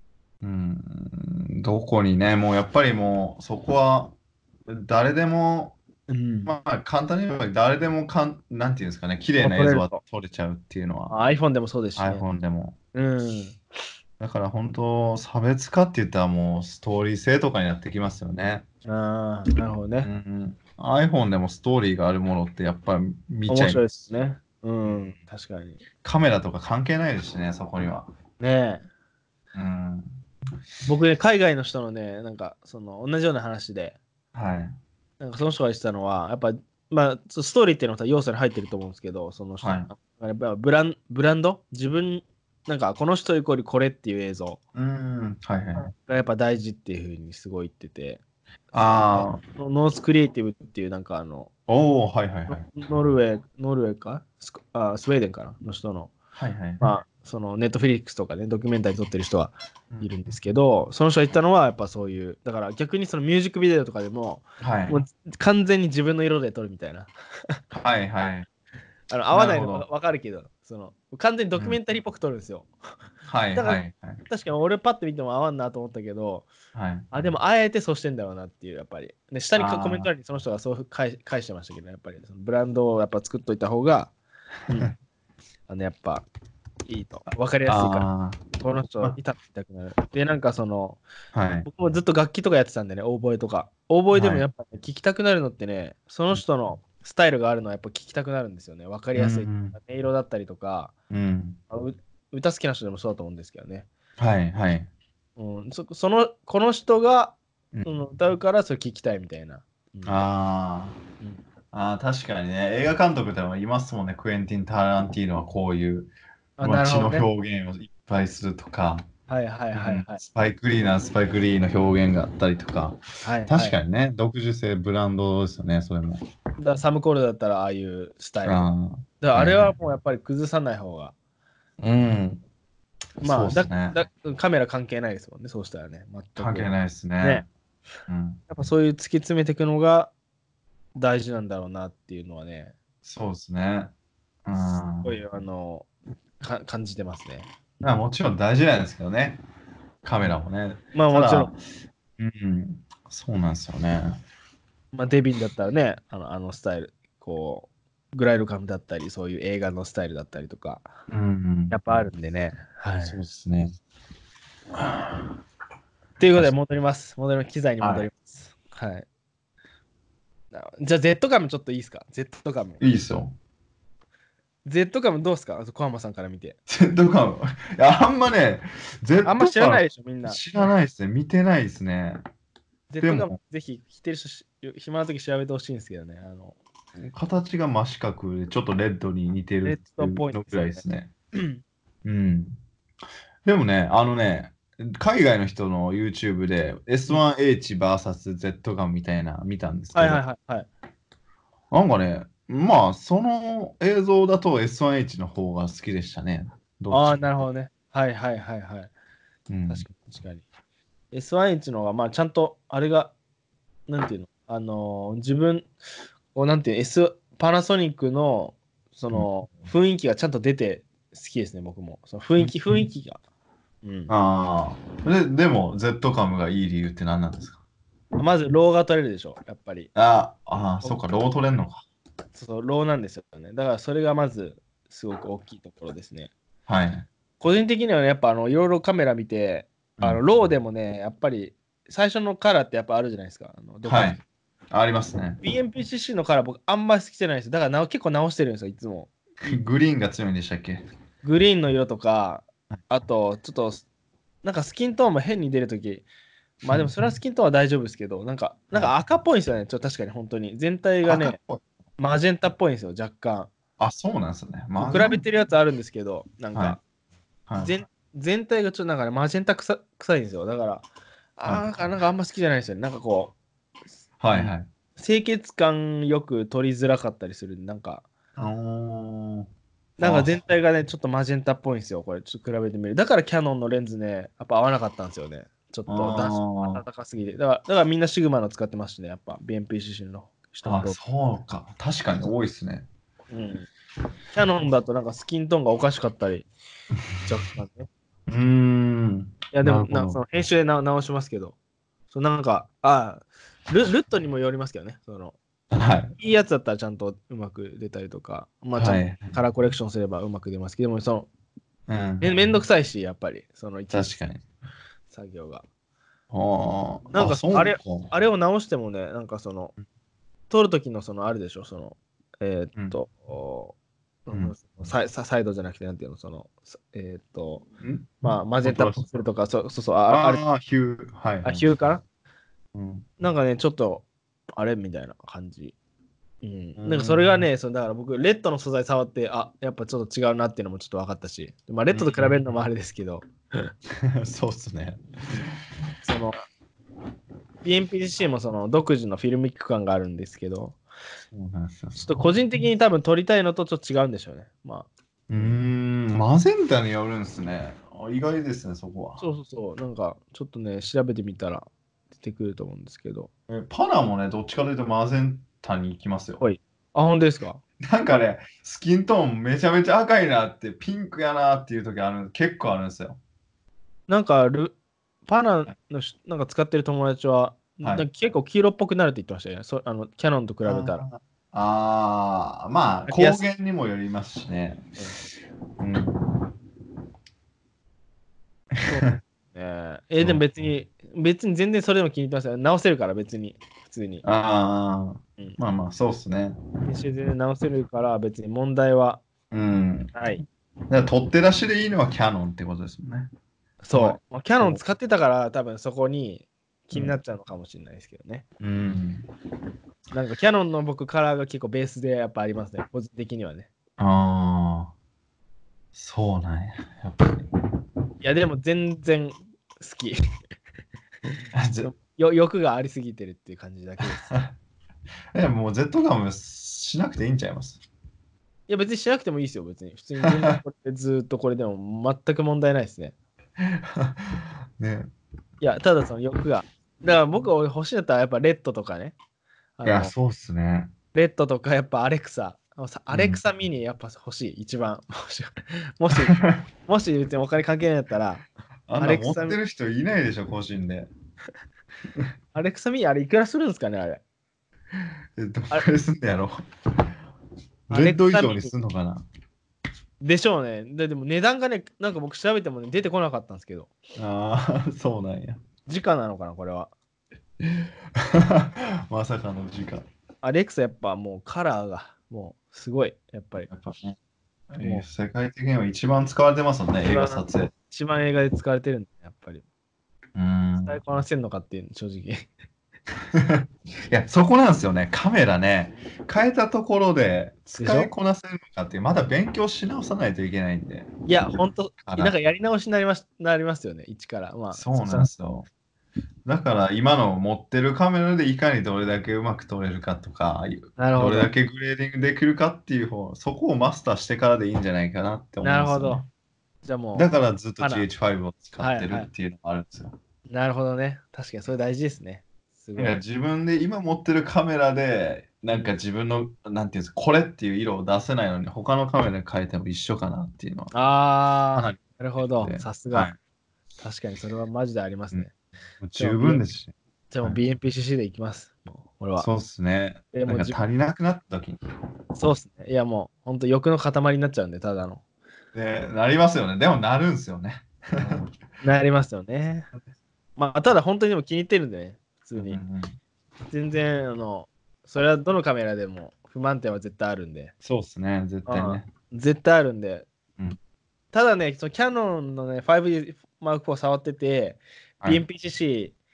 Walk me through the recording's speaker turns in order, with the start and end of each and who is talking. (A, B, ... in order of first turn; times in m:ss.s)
0:00.4-0:04.1 A
0:04.7-0:05.8 A
0:06.1-0:06.5 B
0:06.4-0:11.1 A
0:09.4-0:10.0 B
0:11.1-0:12.2 B
0:12.0-0:12.8 A
0:12.9-0:13.6 B
0:14.2-0:18.6 A
0:18.8-0:20.1 B
0:20.0-0:23.8 A
0:23.5-0:25.8 B
0:24.8-0:25.2 A
0:26.0-0:28.1 A
0:28.4-0:28.8 B
0:29.5-0:30.2 A
0:30.9-0:34.0 B
0:34.3-0:34.8 A
0:35.2-0:44.6 B
0:39.6-0:39.9 A
0:44.7-0:45.9 A
0:45.8-0:48.2 B
0:48.7-0:51.5 B
0:48.7-0:49.4 A
0:51.7-0:52.7 A
0:52.5-0:56.1 B
0:56.3-0:56.8 A
0:56.8-1:07.5 B
1:04.6-1:05.0 A
1:07.7-1:08.5 A
1:09.1-1:12.7 B
1:09.3-1:09.8 A
1:13.3-1:14.2 A
1:13.6-1:16.5 B
1:16.7-1:17.1 A
1:17.1-1:24.1 B
1:19.6-1:20.1 A
1:24.7-1:25.0 A
1:25.7-1:26.2 B
1:26.8-1:28.1 B
1:27.6-1:28.5 A
1:28.6-1:31.0 B
1:31.3-1:31.7 A
1:31.6-1:40.9 B
1:34.1-1:34.4 A
1:39.1-1:39.8 A
1:41.1-1:41.6 A
1:41.7-1:43.9 B
1:44.2-1:44.9 A
1:45.4-1:50.2 B
1:47.7-1:48.0 A
1:50.0-1:51.0 A
1:51.7-1:59.1 A
1:56.6-1:57.3 B
1:59.3-2:00.2 B
1:59.7-2:06.2 A
2:03.2-2:03.8 B
2:06.6-2:08.7 B
2:08.4-2:09.8 A
2:09.2-2:11.1 B
2:11.8-2:12.4 A
2:13.2-2:14.0 A
2:13.2-2:17.4 B
2:16.4-2:17.4 A
2:18.1-2:18.4 A
2:18.5-2:20.1 B
2:20.9-2:22.7 B
2:23.0-2:23.9 A
2:24.4-2:25.2 A
2:25.0-2:25.9 B
2:26.4-2:27.5 B
2:27.8-2:29.4 A
2:30.0-2:31.6 A
2:30.9-2:31.5 B
2:32.2-2:34.2 A
2:34.9-2:40.9 B
2:41.1-2:41.8 A
2:41.7-2:43.2 B
2:43.0-2:43.7 A
2:44.8-2:45.2 A
2:46.2-2:49.0 B
2:47.8-2:48.1 A
2:50.5-2:52.8 B
2:52.8-2:53.4 A
2:54.6-2:56.6 B
2:56.7-3:02.2 A
2:59.2-3:00.4 B
3:02.9-3:06.6 B
3:03.0-3:03.4 A
3:07.0-3:11.1 A
3:09.6-3:11.6 B
3:12.0-3:12.6 A
3:13.4-3:20.2 A
3:19.9-3:20.7 B
3:21.7-3:27.3 A
3:26.9-3:28.9 B
3:29.5-3:29.9 A
3:29.7-3:30.4 B
3:31.1-3:33.1 B
3:33.9-3:35.7 B
3:36.3-3:43.2 B
3:42.4-3:42.8 A
3:43.8-3:44.1 B
3:44.1-3:47.6 A
3:48.2-3:49.9 B
3:49.9-3:51.8 A
3:52.3-3:56.3 B
3:56.7-3:57.1 A
3:57.4-4:04.2 B
4:00.0-4:00.2 A
4:03.8-4:04.2 A
4:04.7-4:05.4 A
4:05.4-4:09.1 B
4:09.4-4:10.8 A
4:11.2-4:13.8 B
4:14.4-4:16.1 B
4:16.6-4:21.4 B
4:16.7-4:17.1 A
4:21.0-4:21.6 A
4:22.0-4:23.5 B
4:23.8-4:25.2 A
4:24.8-4:26.8 B
4:27.5-4:27.7 A
4:27.6-4:30.8 B
4:31.4-4:33.3 B
4:31.4-4:31.9 A
4:34.2-4:34.7 A
4:34.3-4:38.0 B
4:38.4-4:39.5 A
4:40.0-4:51.0 B
4:40.0-4:40.4 A
4:45.9-4:46.8 A
4:50.6-4:52.9 A
4:53.3-4:53.7 B
4:54.3-4:56.5 B
4:57.2-4:57.9 B
4:58.3-5:00.2 A
4:59.5-5:01.5 B
5:02.1-5:05.4 B
5:05.7-5:06.2 A
5:06.2-5:11.3 B
5:08.8-5:09.4 A
5:11.9-5:12.6 A
5:12.2-5:14.1 B
5:13.9-5:14.4 A
5:15.1-5:15.6 B
5:16.3-5:18.1 A
5:17.1-5:19.7 B
5:20.5-5:23.7 B
5:24.2-5:27.6 B
5:24.3-5:24.8 A
5:27.8-5:29.1 A
5:28.2-5:30.4 B
5:30.1-5:31.7 A
5:31.4-5:32.0 B
5:32.7-5:33.1 A
5:33.2-5:35.7 B
5:36.4-5:43.7 B
5:36.8-5:37.5 A
5:41.9-5:42.5 A
5:44.0-5:45.5 A
5:46.0-5:46.4 B
5:47.6-5:50.8 B
5:51.3-5:52.3 A
5:52.0-5:55.5 B
5:55.3-5:59.2 A
5:59.2-6:03.3 B
6:03.5-6:06.4 A
6:06.4-6:07.6 B
6:07.8-6:13.2 A
6:14.1-6:21.0 B
6:20.6-6:25.0 A
6:23.1-6:23.4 B
6:25.8-6:26.4 A
6:28.7-6:29.2 A
6:28.9-6:34.2 B
6:30.2-6:30.7 A
6:34.2-6:36.6 A
6:36.8-6:39.2 B
6:39.5-6:43.3 A
6:40.1-6:40.4 B
6:43.8-6:48.4 B
6:43.9-6:44.8 A
6:48.6-6:49.2 A
6:50.1-6:53.7 B
6:54.0-6:54.9 A
6:55.9-6:57.4 A
6:58.2-7:00.2 B
7:01.2-7:04.3 B
7:01.5-7:01.9 A
7:04.0-7:04.5 A
7:05.3-7:07.8 A
7:08.7-7:13.1 B
7:10.2-7:10.6 A
7:13.6-7:15.1 A
7:15.6-7:19.1 B
7:19.8-7:20.1 B
7:19.8-7:20.9 A
7:21.1-7:28.4 B
7:23.1-7:23.4 A
7:26.1-7:26.6 A
7:28.9-7:31.1 A
7:29.0-7:29.6 B
7:32.5-7:34.2 B
7:35.4-7:36.6 A
7:37.9-7:39.2 A
7:37.9-7:38.7 B
7:40.2-7:43.9 B
7:44.2-7:45.6 A
7:45.8-7:46.9 B
7:47.6-7:50.0 A
7:50.4-7:53.7 B
7:53.6-7:54.2 A
7:54.7-7:57.7 A
7:57.0-7:59.6 B
8:00.4-8:01.0 A
8:00.8-8:02.5 B
8:03.3-8:11.1 A
8:07.8-8:08.1 B
8:11.3-8:15.3 B
8:12.0-8:12.3 A
8:14.7-8:15.7 A
8:16.4-8:26.3 A
8:21.0-8:21.5 B
8:25.6-8:26.2 B
8:26.8-8:27.3 B
8:27.1-8:30.1 A
8:27.8-8:28.0 B
8:28.8-8:29.3 B
8:30.5-8:33.2 B
8:33.0-8:40.9 A
8:40.9-8:43.3 B
8:41.7-8:43.4 A
8:44.0-8:45.5 B
8:46.0-8:47.6 A
8:46.2-8:46.6 B
8:47.3-8:49.5 B
8:49.4-8:51.8 A
8:50.3-8:50.8 B
8:52.3-8:55.2 B
8:55.7-8:58.4 A
8:58.2-8:59.9 B
9:00.6-9:02.8 B
9:02.6-9:03.2 A
9:03.7-9:07.7 B
9:07.8-9:09.1 A
9:08.7-9:10.3 B
9:11.3-9:16.1 B